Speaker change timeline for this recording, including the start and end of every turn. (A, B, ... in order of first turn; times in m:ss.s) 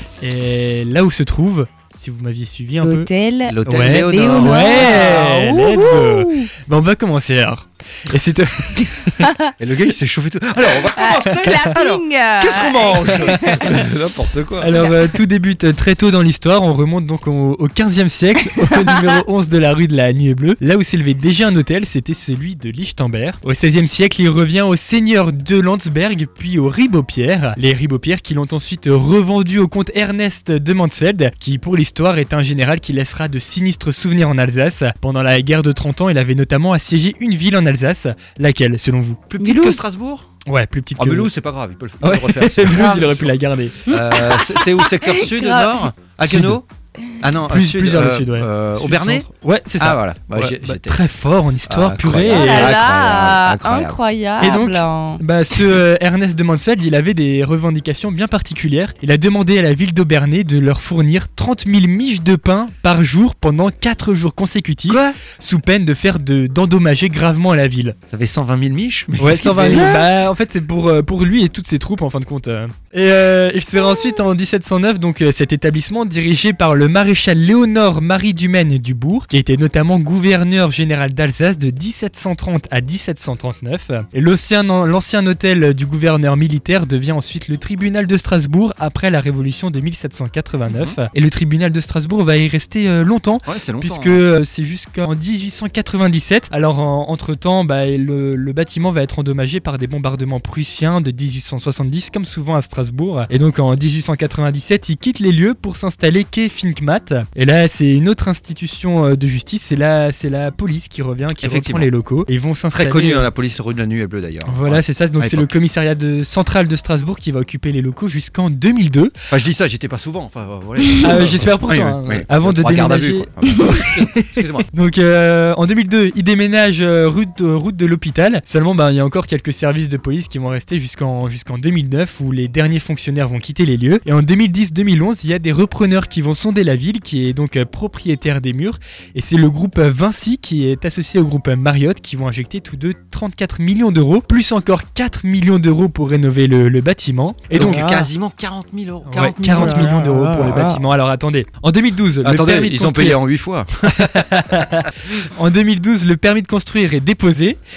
0:00.2-0:03.1 A
0:02.8-0:06.5 B
0:03.4-0:05.3 C
0:03.7-0:09.3 A
0:09.2-0:09.5 B
0:09.6-0:14.7 C
0:10.8-0:13.8 B
0:14.6-0:39.3 A
0:14.7-0:15.1 B
0:39.3-0:40.3 C
0:39.4-0:39.8 B
0:40.4-0:41.3 A
0:41.0-0:46.7 C
0:42.0-0:43.8 A
0:42.7-0:43.0 B
0:43.9-0:45.9 B
0:46.2-0:46.6 A
0:47.2-0:49.3 C
0:47.4-0:52.8 A
0:49.8-0:51.0 C
0:51.7-0:54.0 C
0:52.3-0:55.6 B
0:54.4-1:08.0 A
1:04.9-1:05.2 C
1:08.1-1:10.0 C
1:09.2-1:53.3 A
1:30.6-1:31.0 C
1:33.4-1:34.2 C
1:51.4-1:51.9 C
1:52.7-1:55.5 C
1:54.4-1:59.1 A
1:59.3-2:04.7 C
2:01.0-2:27.9 A
2:27.5-2:30.8 C
2:27.6-2:28.1 B
2:29.0-2:33.2 A
2:29.5-2:30.8 B
2:32.2-2:34.3 C
2:33.9-2:37.6 A